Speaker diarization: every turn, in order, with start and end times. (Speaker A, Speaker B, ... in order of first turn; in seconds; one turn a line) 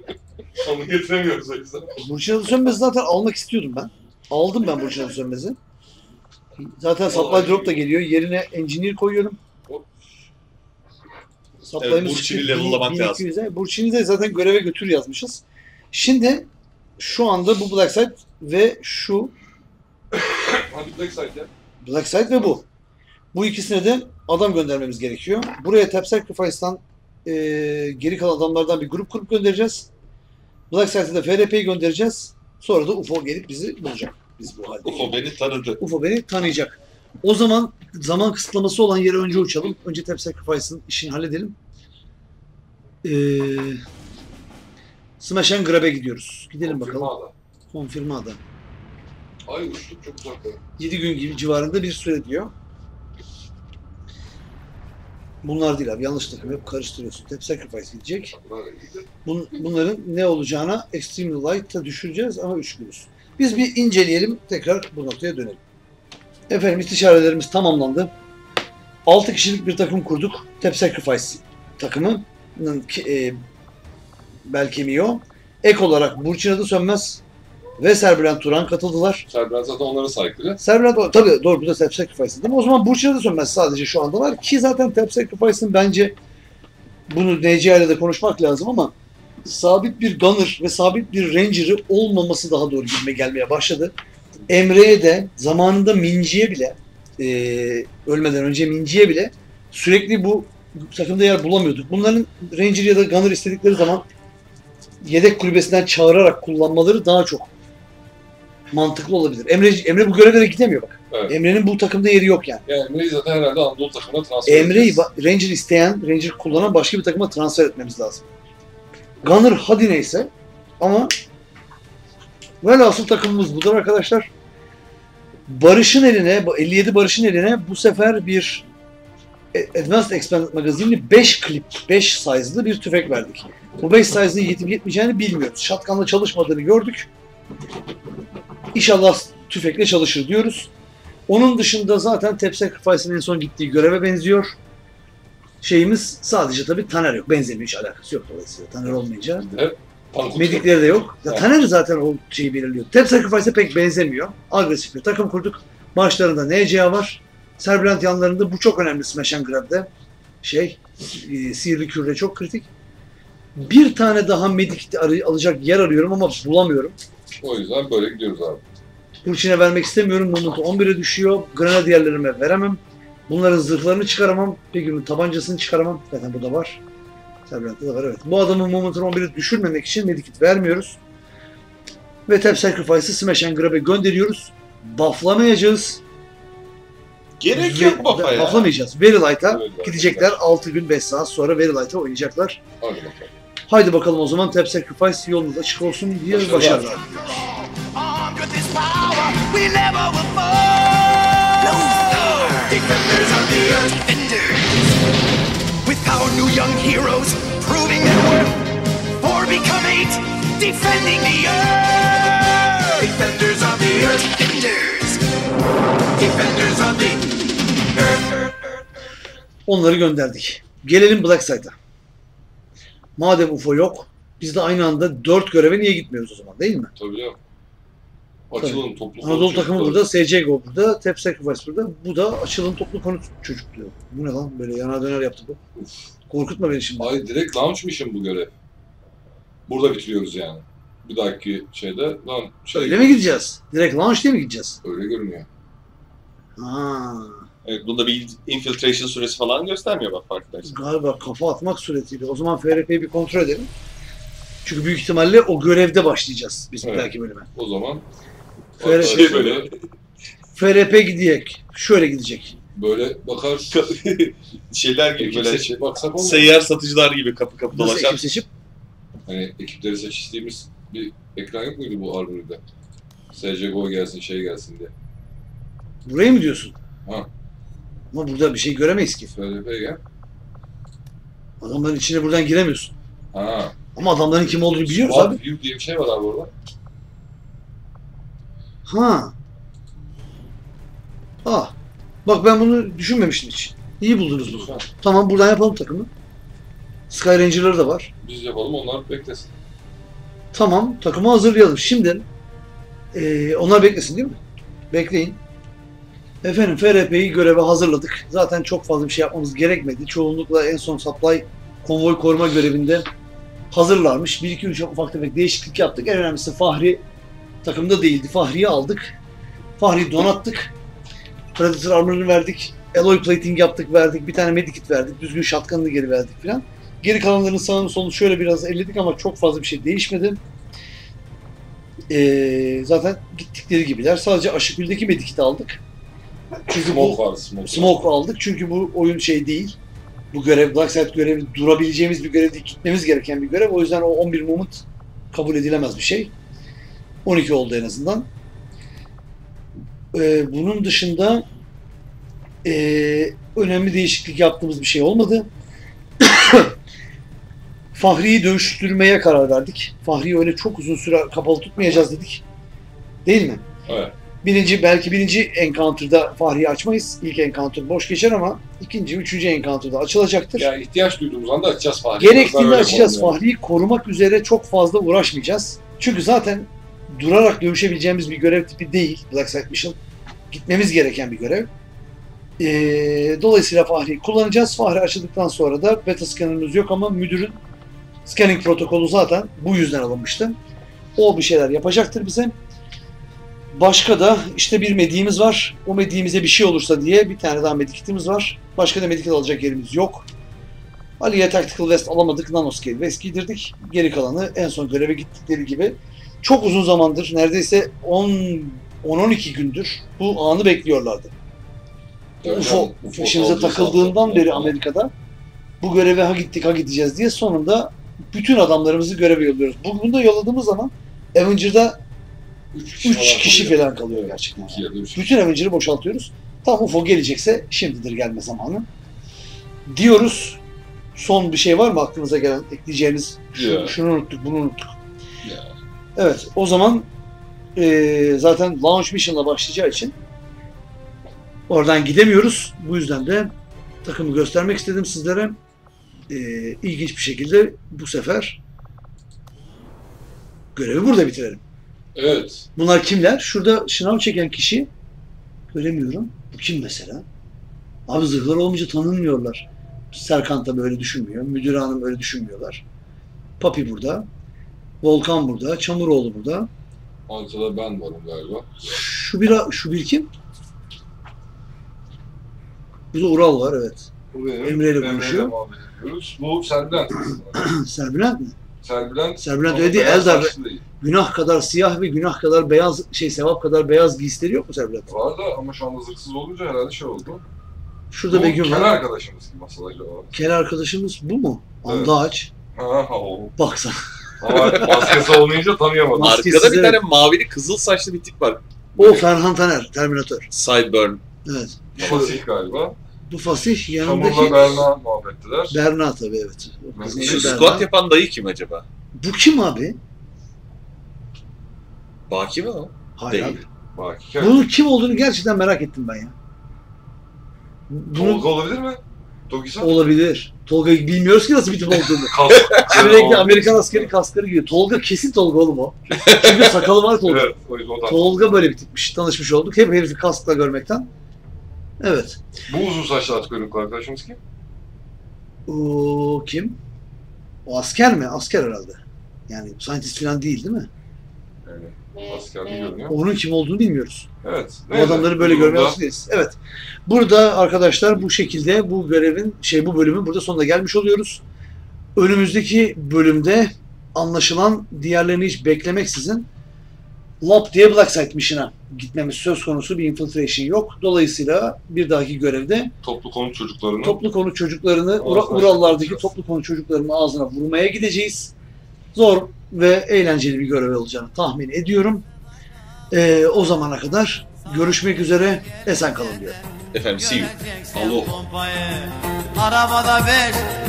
Speaker A: 0.5-2.0
Speaker B: 2.0-5.6
Speaker B: 6.6-9.4
Speaker A: 7.1-7.8
Speaker B: 11.6-19.3
Speaker C: 11.8-13.3
Speaker A: 20.1-21.5
Speaker B: 21.8-22.7
Speaker B: 23.3-29.9
Speaker B: 30.7-35.2
Speaker C: 34.8-35.8
Speaker B: 35.8-41.6
Speaker B: 43.0-43.8
Speaker B: 45.2-47.1
Speaker A: 46.6-47.3
Speaker B: 47.7-48.4
Speaker A: 49.5-50.6
Speaker B: 50.8-52.5
Speaker B: 55.4-58.4
Speaker A: 58.3-59.1
Speaker B: 59.2-65.6
Speaker B: 66.5-68.1
Speaker B: 69.1-73.4
Speaker B: 74.5-77.2
Speaker B: 77.8-79.3
Speaker A: 79.3-80.6
Speaker B: 80.6-86.2
Speaker B: 87.1-93.9
Speaker B: 94.5-104.1
Speaker B: 105.0-107.5
Speaker B: 108.7-112.6
Speaker A: 111.1-111.4
Speaker A: 112.7-115.0
Speaker B: 114.5-118.3
Speaker B: 119.2-121.1
Speaker B: 122.6-124.3
Speaker B: 125.5-128.7
Speaker B: 129.5-137.1
Speaker B: 138.7-140.7
Speaker B: 141.3-144.6
Speaker B: 145.6-149.5
Speaker A: 149.4-151.6
Speaker B: 150.3-159.9
Speaker B: 160.4-162.7
Speaker B: 163.6-167.0
Speaker A: 167.4-168.6
Speaker B: 169.2-176.8
Speaker B: 177.5-181.0
Speaker B: 182.3-186.0
Speaker C: 187.4-188.7
Speaker B: 187.5-192.6
Speaker A: 189.4-190.4
Speaker A: 192.8-193.3
Speaker B: 193.7-197.0
Speaker A: 196.3-197.0
Speaker D: 197.0-204.8
Speaker D: 205.8-215.2
Speaker D: 216.2-217.4
Speaker D: 217.9-218.7
Speaker B: 219.7-221.8
Speaker B: 223.2-226.9
Speaker A: 227.0-227.4
Speaker A: 228.5-230.1
Speaker B: 228.6-235.6
Speaker B: 236.3-237.2
Speaker A: 237.0-238.5
Speaker A: 239.7-243.2
Speaker B: 242.7-244.8
Speaker A: 244.8-245.5
Speaker B: 246.6-247.5
Speaker C: 247.6-250.8
Speaker B: 250.7-253.7
Speaker B: 254.6-257.5
Speaker A: 256.8-258.1
Speaker B: 258.8-259.3
Speaker A: 258.8-259.7
Speaker C: 259.0-259.7
Speaker B: 260.6-262.6
Speaker A: 262.8-264.0
Speaker C: 263.7-268.2
Speaker A: 265.2-266.6
Speaker B: 267.7-268.5
Speaker A: 269.3-272.6
Speaker A: 273.3-274.9
Speaker B: 276.1-276.8
Speaker B: 278.1-279.3
Speaker A: 279.4-280.0
Speaker B: 281.6-282.9
Speaker A: 283.3-283.8
Speaker B: 284.0-285.4
Speaker A: 284.5-286.5
Speaker B: 288.9-289.4
Speaker B: 291.4-291.8
Speaker B: 292.3-296.1
Speaker A: 294.4-294.8
Speaker B: 297.1-298.1
Speaker A: 298.2-299.5
Speaker B: 300.5-302.3
Speaker B: 303.1-304.4
Speaker B: 304.9-305.4
Speaker B: 306.4-313.1
Speaker B: 313.7-317.0
Speaker B: 317.6-319.2
Speaker B: 319.8-320.7
Speaker B: 321.6-330.4
Speaker B: 332.1-335.8
Speaker B: 336.7-339.8
Speaker A: 336.7-338.1
Speaker B: 340.3-346.3
Speaker B: 347.2-348.3
Speaker B: 350.1-351.5
Speaker B: 352.6-355.5
Speaker B: 356.2-356.7
Speaker B: 357.9-362.4
Speaker B: 363.2-363.6
Speaker A: 363.9-364.2
Speaker B: 364.4-370.7
Speaker A: 370.6-373.4
Speaker B: 372.2-380.0
Speaker B: 380.5-381.7
Speaker B: 382.6-387.6
Speaker B: 388.2-390.6
Speaker B: 391.2-392.6
Speaker B: 393.7-400.3
Speaker B: 401.2-411.3
Speaker A: 412.4-414.8
Speaker B: 412.4-415.1
Speaker B: 415.8-422.0
Speaker A: 422.7-425.4
Speaker B: 423.0-428.9
Speaker B: 429.9-430.6
Speaker B: 431.1-434.9
Speaker A: 433.6-434.0
Speaker A: 435.4-435.7
Speaker B: 436.2-437.1
Speaker B: 437.8-440.2
Speaker B: 441.7-443.5
Speaker B: 444.0-445.6
Speaker B: 446.3-448.6
Speaker B: 450.8-451.6
Speaker A: 452.1-452.7
Speaker B: 452.8-454.9
Speaker B: 455.7-457.2
Speaker B: 458.1-462.8
Speaker B: 463.6-464.3
Speaker B: 465.0-466.7
Speaker A: 467.3-468.8
Speaker B: 468.9-470.3
Speaker B: 473.1-474.1
Speaker A: 474.3-477.7
Speaker B: 474.6-475.5
Speaker B: 477.3-478.6
Speaker A: 478.8-480.8
Speaker B: 479.4-485.1
Speaker A: 485.1-487.4
Speaker B: 488.1-489.0
Speaker A: 488.3-490.4
Speaker B: 490.3-492.5
Speaker A: 491.9-492.1
Speaker A: 492.8-493.6
Speaker B: 493.6-495.2
Speaker A: 494.4-496.4
Speaker C: 494.8-495.0
Speaker B: 496.1-497.0
Speaker C: 496.2-498.6
Speaker B: 499.0-500.5
Speaker C: 500.5-501.2
Speaker B: 501.4-502.3
Speaker A: 502.0-503.0
Speaker C: 502.0-502.4
Speaker B: 503.3-504.9
Speaker A: 503.7-505.8
Speaker B: 505.7-507.9
Speaker A: 507.0-507.7
Speaker C: 507.2-508.9
Speaker B: 509.2-510.0
Speaker C: 512.3-513.6
Speaker B: 513.2-513.6
Speaker A: 513.9-514.7
Speaker B: 514.4-516.3
Speaker B: 517.9-518.5
Speaker A: 518.1-519.9
Speaker B: 519.8-527.5
Speaker A: 522.3-524.1
Speaker C: 522.4-523.1
Speaker C: 526.1-526.8
Speaker A: 527.2-528.7
Speaker B: 528.1-531.1
Speaker B: 532.0-532.4
Speaker A: 532.7-534.4
Speaker B: 535.7-536.8
Speaker B: 537.7-540.9
Speaker A: 541.6-543.2
Speaker B: 543.1-544.3
Speaker A: 544.4-546.0
Speaker B: 544.9-551.4
Speaker B: 552.2-556.5
Speaker B: 557.4-562.9
Speaker A: 563.0-564.3
Speaker B: 564.0-568.5
Speaker A: 565.2-566.3
Speaker B: 569.1-572.3
Speaker B: 573.1-576.6
Speaker C: 576.9-577.6
Speaker D: 577.5-578.1
Speaker A: 577.9-578.4
Speaker D: 578.6-579.0
Speaker D: 580.1-580.6